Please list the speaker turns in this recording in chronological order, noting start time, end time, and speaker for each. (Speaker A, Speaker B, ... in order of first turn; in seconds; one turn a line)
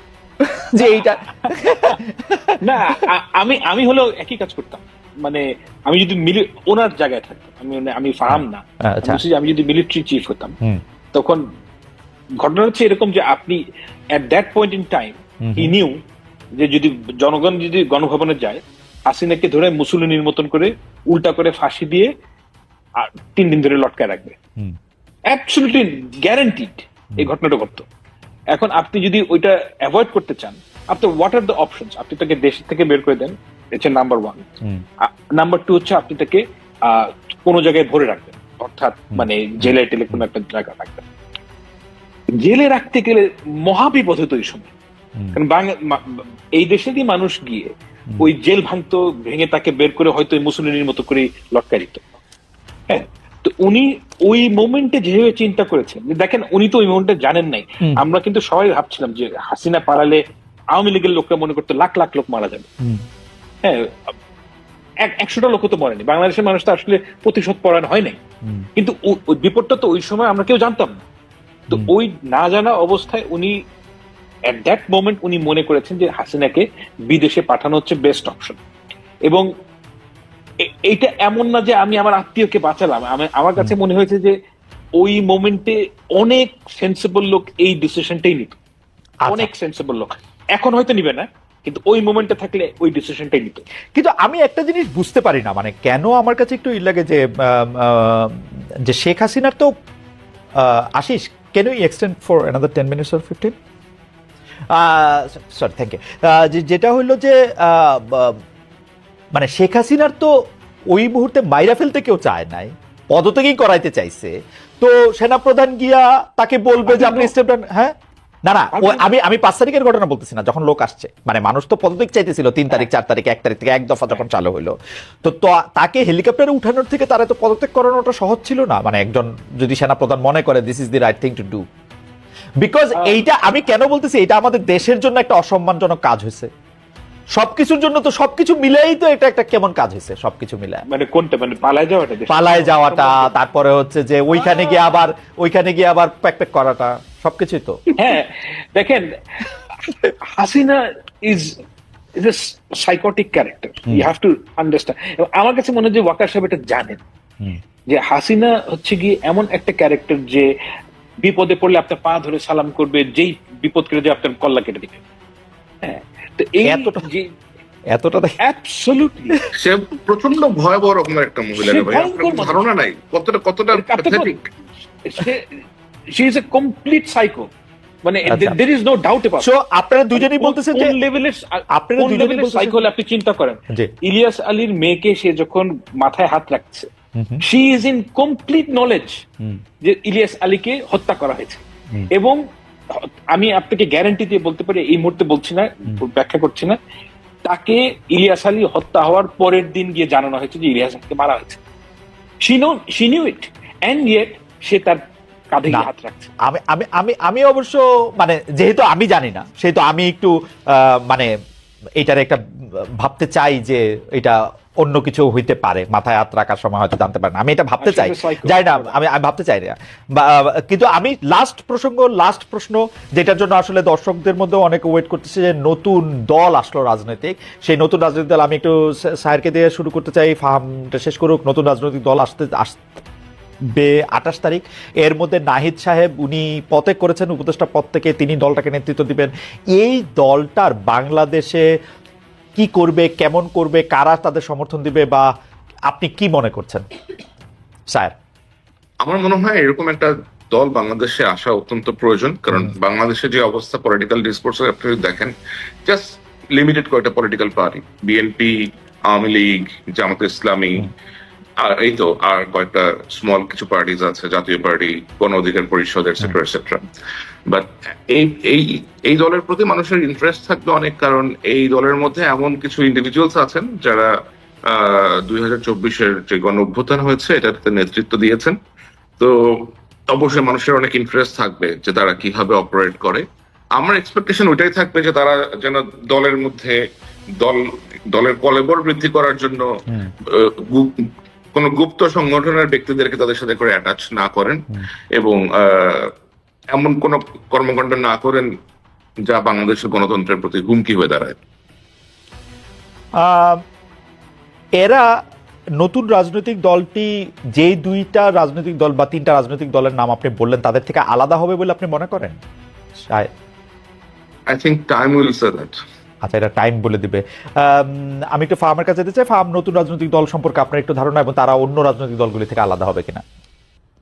Speaker A: 0.6-2.8
Speaker B: 0.9-2.0
Speaker B: 2.6-10.6
Speaker A: 8.3-9.2
Speaker B: 11.1-11.4
Speaker B: 12.4-13.6
Speaker B: 14.1-16.0
Speaker A: 15.4-15.7
Speaker B: 16.6-22.1
Speaker B: 23.0-24.4
Speaker B: 25.3-27.9
Speaker B: 28.5-34.4
Speaker B: 35.0-41.0
Speaker A: 39.1-40.2
Speaker B: 42.4-44.7
Speaker B: 45.3-52.0
Speaker B: 52.9-60.2
Speaker B: 60.7-62.7
Speaker B: 63.6-63.9
Speaker B: 65.0-68.2
Speaker B: 68.8-71.0
Speaker B: 71.7-73.5
Speaker B: 74.5-78.6
Speaker B: 80.7-84.3
Speaker B: 85.0-88.6
Speaker A: 89.2-89.5
Speaker B: 89.3-93.6
Speaker A: 94.0-98.3
Speaker A: 98.9-99.7
Speaker A: 100.6-103.5
Speaker A: 104.8-108.4
Speaker A: 109.3-110.3
Speaker A: 110.9-117.9
Speaker B: 116.9-117.3
Speaker A: 118.5-131.6
Speaker B: 118.7-119.1
Speaker A: 132.6-136.5
Speaker B: 133.0-133.2
Speaker A: 137.3-140.8
Speaker B: 140.9-143.3
Speaker A: 142.3-147.8
Speaker B: 148.0-149.1
Speaker B: 150.4-151.6
Speaker B: 152.2-157.0
Speaker B: 157.9-160.5
Speaker B: 161.2-165.0
Speaker B: 165.8-167.3
Speaker A: 166.7-167.0
Speaker A: 167.9-168.4
Speaker B: 168.1-169.4
Speaker C: 169.6-174.4
Speaker B: 171.6-172.6
Speaker B: 173.7-174.3
Speaker B: 175.0-175.6
Speaker B: 176.1-177.5
Speaker B: 178.1-179.5
Speaker A: 178.3-178.6
Speaker A: 179.4-180.9
Speaker B: 180.2-186.9
Speaker A: 181.7-182.8
Speaker A: 187.2-187.4
Speaker B: 187.4-189.2
Speaker B: 189.8-192.4
Speaker B: 192.9-196.8
Speaker B: 197.5-201.6
Speaker B: 202.4-205.0
Speaker B: 205.5-206.3
Speaker A: 206.5-211.3
Speaker A: 212.0-212.4
Speaker A: 213.0-232.9
Speaker B: 217.8-219.0
Speaker A: 233.7-241.6
Speaker A: 242.6-245.3
Speaker A: 245.9-246.8
Speaker C: 249.0-260.9
Speaker C: 261.6-266.8
Speaker C: 267.5-274.1
Speaker C: 274.7-278.6
Speaker C: 279.2-283.2
Speaker C: 283.8-286.8
Speaker C: 287.4-289.7
Speaker C: 290.3-290.9
Speaker C: 291.5-296.1
Speaker C: 296.7-298.5
Speaker C: 299.3-301.4
Speaker A: 303.2-303.6
Speaker A: 304.8-305.1
Speaker A: 305.8-312.4
Speaker A: 313.0-313.3
Speaker C: 314.5-315.8
Speaker A: 316.2-323.2